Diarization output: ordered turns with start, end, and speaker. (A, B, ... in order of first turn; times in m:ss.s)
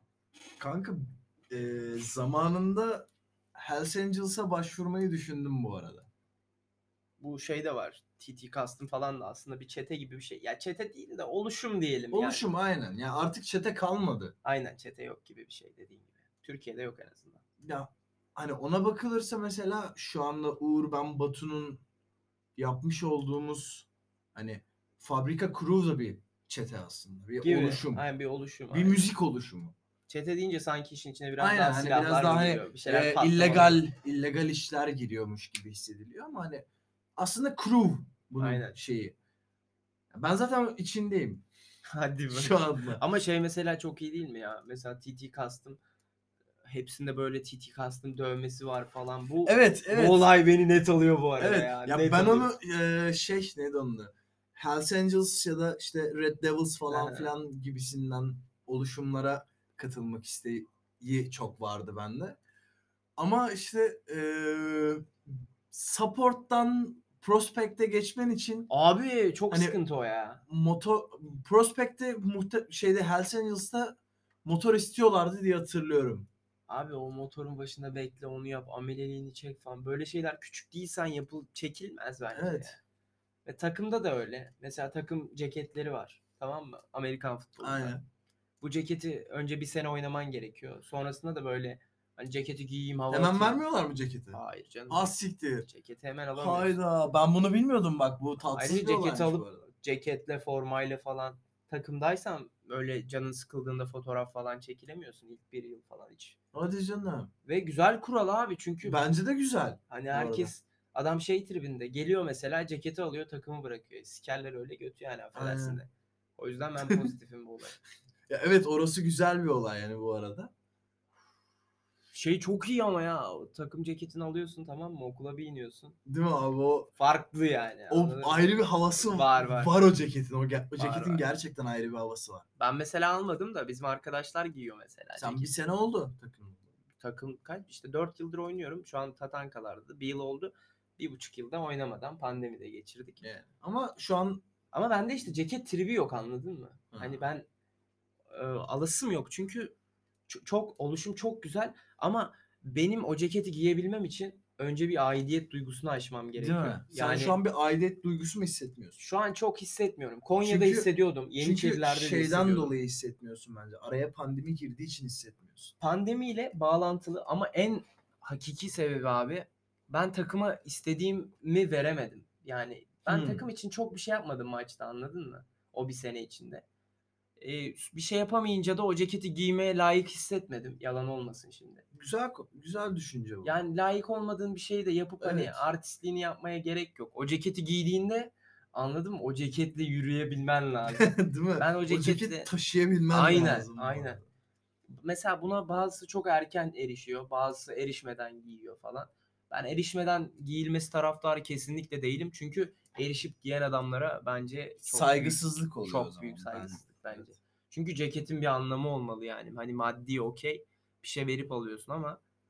0:00.6-0:06.1 A
0:07.2-0:12.4 B
0:12.1-0:14.3 A
0:14.4-0:17.4 B
0:17.6-0:21.8 A
0:22.6-0:28.0 A
0:27.4-0:29.0 B
0:28.7-0:29.7 A
0:30.1-0:33.8 B
0:31.4-0:36.6 A
0:37.2-0:39.1 A
0:38.4-0:38.8 B
0:40.1-0:41.4 A
0:41.9-0:45.8 B
0:42.3-0:43.0 A
0:46.6-0:52.5 B
0:49.4-0:50.2 A
0:51.4-1:02.4 A
0:56.9-0:57.3 B
1:03.2-1:05.2 A
1:05.7-1:08.7 A
1:08.7-1:10.4 B
1:09.5-1:09.8 A
1:10.4-1:16.3 A
1:16.7-1:22.8 B
1:22.3-1:22.8 A
1:23.4-1:27.9 B
1:27.6-1:28.0 A
1:28.6-1:33.6 B
1:33.1-1:35.7 A
1:34.3-1:36.8 B
1:36.4-1:39.6 A
1:38.5-1:46.4 B
1:46.5-1:47.3 A
1:47.4-1:49.1 B
1:48.8-1:50.5 A
1:49.9-1:57.8 B
1:55.3-1:55.8 A
1:58.3-2:00.5 A
2:02.1-2:06.0 B
2:06.0-2:06.9 A
2:07.0-2:09.7 B
2:07.9-2:12.4 A
2:10.8-2:11.2 B
2:12.6-2:15.5 B
2:15.2-2:16.7 A
2:17.0-2:23.2 B
2:23.2-2:24.4 A
2:24.7-2:27.4 B
2:26.9-2:27.3 A
2:28.3-2:29.7 B
2:30.3-2:37.4 B
2:36.4-2:39.0 A
2:39.0-2:42.8 B
2:40.4-2:45.7 A
2:45.8-2:56.6 B
2:53.1-2:53.4 A
2:57.4-3:01.8 B
3:01.9-3:03.5 A
3:03.4-3:12.5 B
3:05.2-3:05.6 A
3:11.0-3:14.3 A
3:13.1-3:14.2 B
3:14.9-3:32.2 B
3:24.9-3:27.3 A